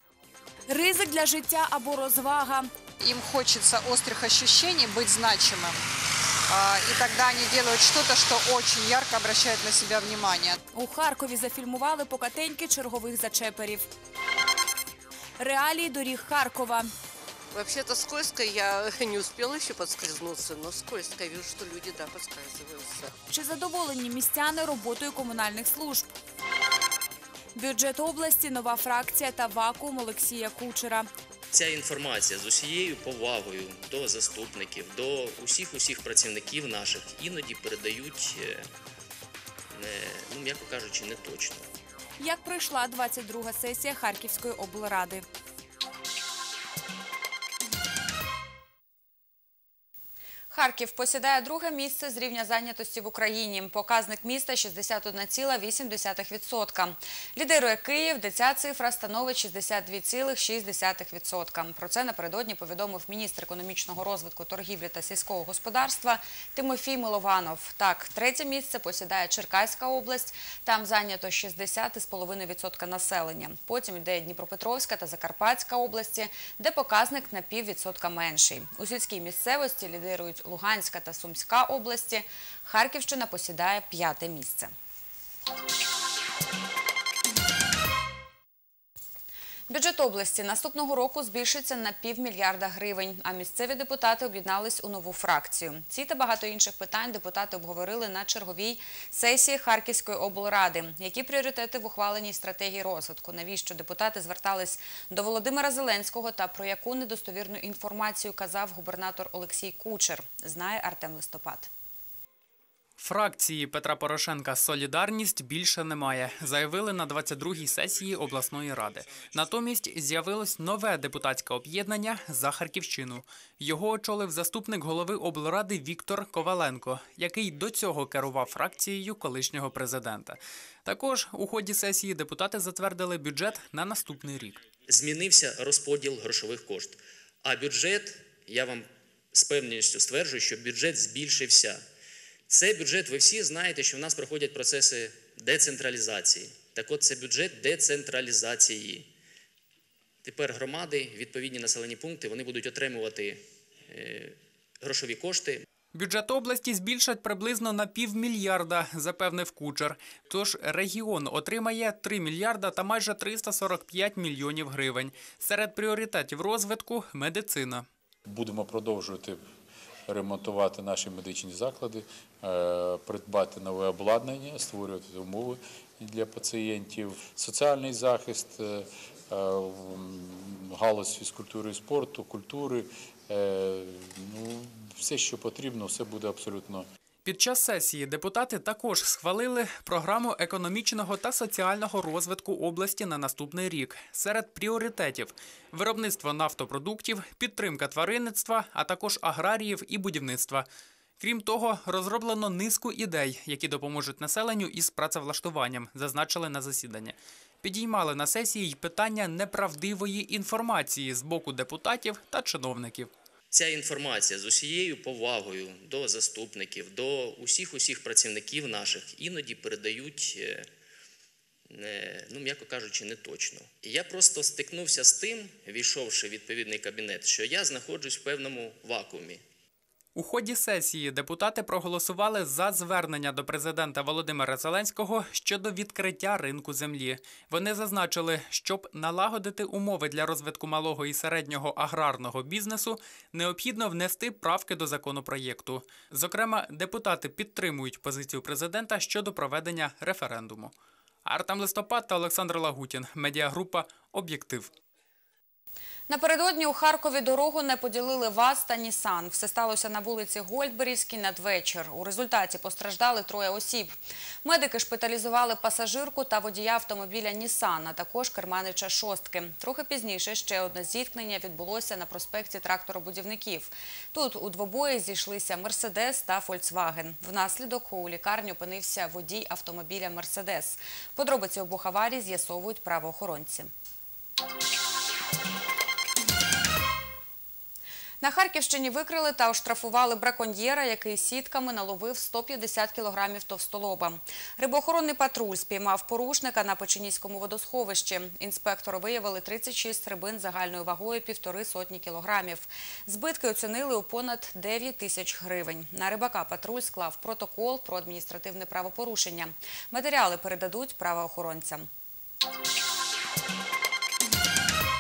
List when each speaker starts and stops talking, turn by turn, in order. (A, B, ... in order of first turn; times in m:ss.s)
0:00.7-0:02.7 A
0:03.0-0:05.8 B
0:06.5-0:10.6 B
0:10.7-0:13.9 A
0:15.4-0:16.9 A
0:17.5-0:23.2 C
0:23.3-0:26.1 A
0:27.6-0:31.1 A
0:31.5-0:38.7 D
0:39.7-0:41.7 D
0:42.2-0:45.2 A
0:50.5-1:24.7 E
1:29.7-1:51.7 E
1:53.0-2:14.6 F
2:14.9-2:21.8 D
2:22.5-2:29.1 D
2:30.2-2:35.7 D
2:35.9-2:47.9 F
2:48.3-2:49.4 G
2:50.1-3:06.9 G
3:07.2-3:20.7 F
3:21.2-3:33.1 F
3:33.5-3:40.7 D
3:41.7-3:49.4 D
3:50.2-4:10.7 F
4:11.2-4:14.7 F
4:16.1-4:43.7 E
4:48.2-5:11.9 E